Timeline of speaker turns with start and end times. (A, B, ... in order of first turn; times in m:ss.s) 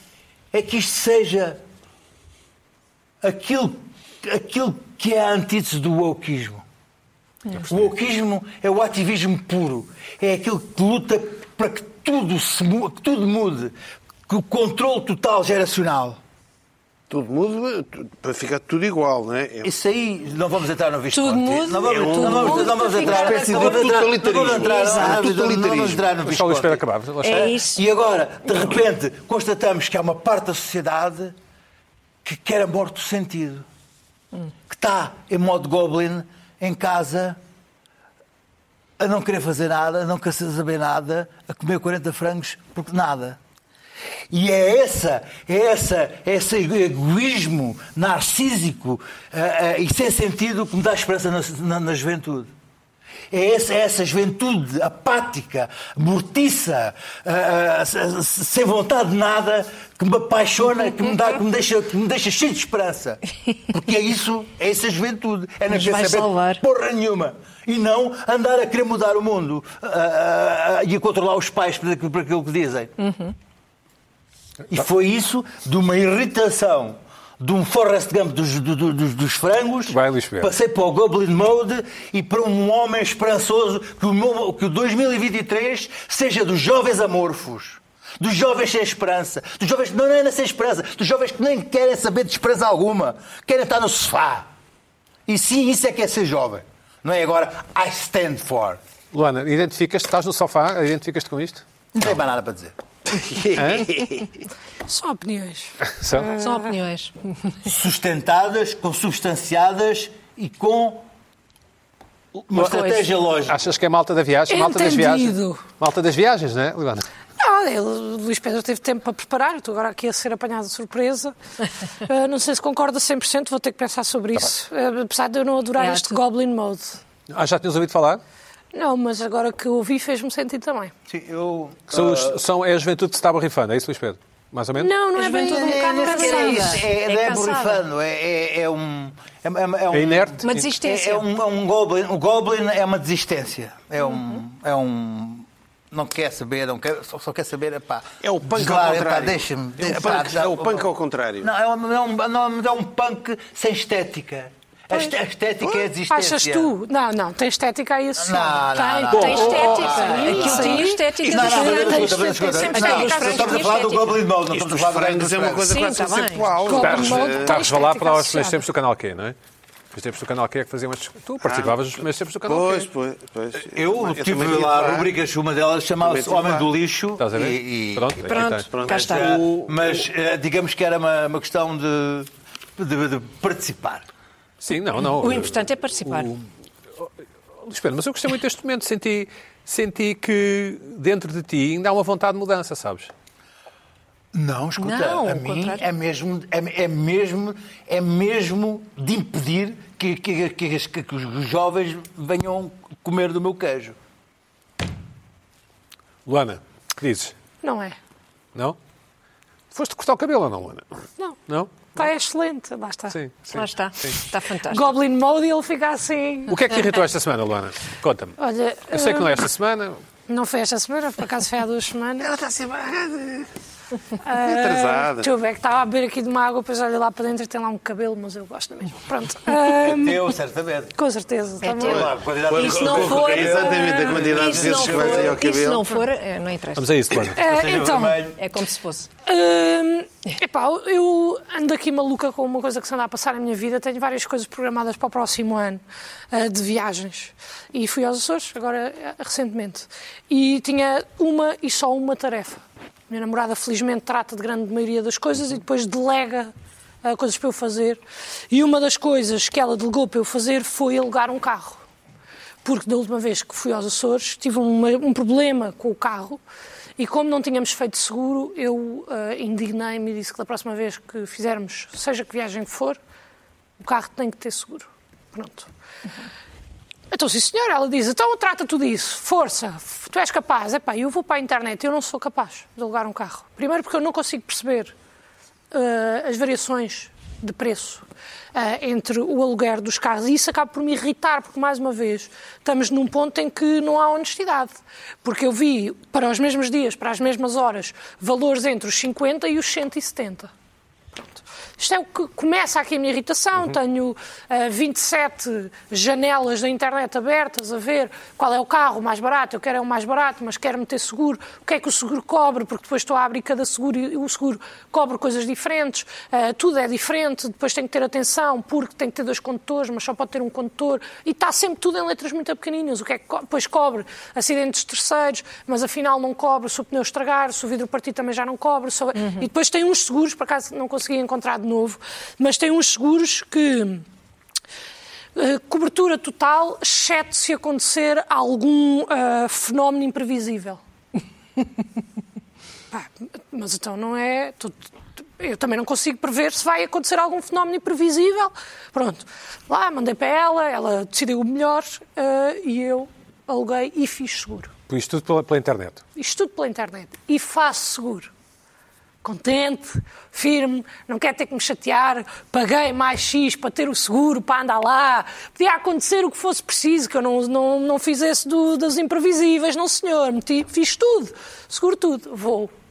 0:00.5-0:01.6 A
0:03.2-0:06.6 A
0:07.5-0:07.9 B
0:07.5-0:13.8 A
0:14.3-0:16.2 A
0:17.1-0:19.7 C
0:19.6-0:31.3 A
0:21.1-0:25.1 D
0:21.7-0:26.1 C
0:26.2-0:27.5 B
0:27.2-0:27.8 D
0:32.2-0:33.6 A
0:34.7-0:37.4 A
0:39.0-0:43.4 A
0:44.3-0:52.5 A
0:53.3-1:03.2 A
1:03.7-1:12.9 A
1:05.7-1:06.6 D
1:13.0-1:13.3 D
1:14.7-1:34.5 A
1:19.9-1:20.5 B
1:35.3-1:38.8 A
1:39.1-1:42.1 B
1:42.0-1:42.7 A
1:43.1-1:44.2 C
1:43.5-1:43.9 B
1:44.8-1:45.8 E
1:45.8-1:46.3 B
1:46.3-1:47.6 D
1:47.6-1:51.0 A
1:52.4-1:53.6 A
1:52.6-1:53.1 D
1:53.4-1:57.1 B
1:54.5-1:55.6 E
1:57.4-2:01.3 E
2:02.0-2:07.0 E
2:05.8-2:06.2 D
2:07.3-2:08.2 B
2:08.7-2:10.9 E
2:11.1-2:12.4 A
2:11.9-2:14.9 B
2:14.8-2:16.8 E
2:15.1-2:17.8 D
2:15.4-2:30.8 A
2:19.9-2:20.6 B
2:20.4-2:21.3 D
2:28.2-2:31.5 C
2:31.4-2:36.7 A
2:36.1-2:44.0 E
2:38.2-2:45.8 A
2:39.1-2:39.7 B
2:39.1-2:44.2 D
2:44.5-2:47.6 C
2:45.6-2:46.5 D
2:46.6-2:48.6 E
2:46.8-2:49.4 B
2:49.9-2:52.9 B
2:51.4-2:51.8 C
2:52.4-2:55.1 C
2:53.6-2:58.3 A
2:56.0-2:56.7 C
2:57.2-2:59.3 B
2:58.2-2:59.4 D
2:58.7-2:59.4 C
2:58.8-3:04.0 A
3:04.6-3:06.4 B
3:05.2-3:06.3 D
3:07.6-3:13.1 B
3:14.3-3:24.0 A
3:14.8-3:15.8 D
3:26.2-3:27.3 B
3:27.6-3:28.0 E
3:29.7-3:30.8 B
3:31.5-3:32.0 B
3:31.9-3:33.2 E
3:33.1-3:34.2 B
3:33.5-3:34.9 D
3:34.7-3:36.6 E
3:36.5-3:38.4 B
3:38.4-3:39.4 E
3:38.9-3:40.0 B
3:40.3-3:42.3 E
3:42.2-3:43.5 C
3:44.2-3:50.3 E
3:44.3-3:45.3 C
3:49.7-3:50.9 A
3:51.0-3:52.1 E
3:51.6-3:56.9 D
3:51.8-3:55.4 A
3:51.8-3:56.0 C
3:56.8-3:57.4 B
3:57.4-3:58.4 A
3:57.4-3:58.2 E
3:58.4-3:59.1 D
3:59.2-4:16.5 E
4:17.0-4:21.8 E
4:22.6-4:26.4 E
4:27.0-4:33.0 E
4:33.8-4:35.7 E
4:37.1-4:44.9 E
4:45.7-5:00.5 E
5:01.4-5:34.0 E
5:35.3-5:40.8 E
5:42.9-5:44.8 E
5:45.4-5:54.7 E
5:54.9-5:56.0 B
5:56.2-5:58.3 E
5:59.2-6:12.7 E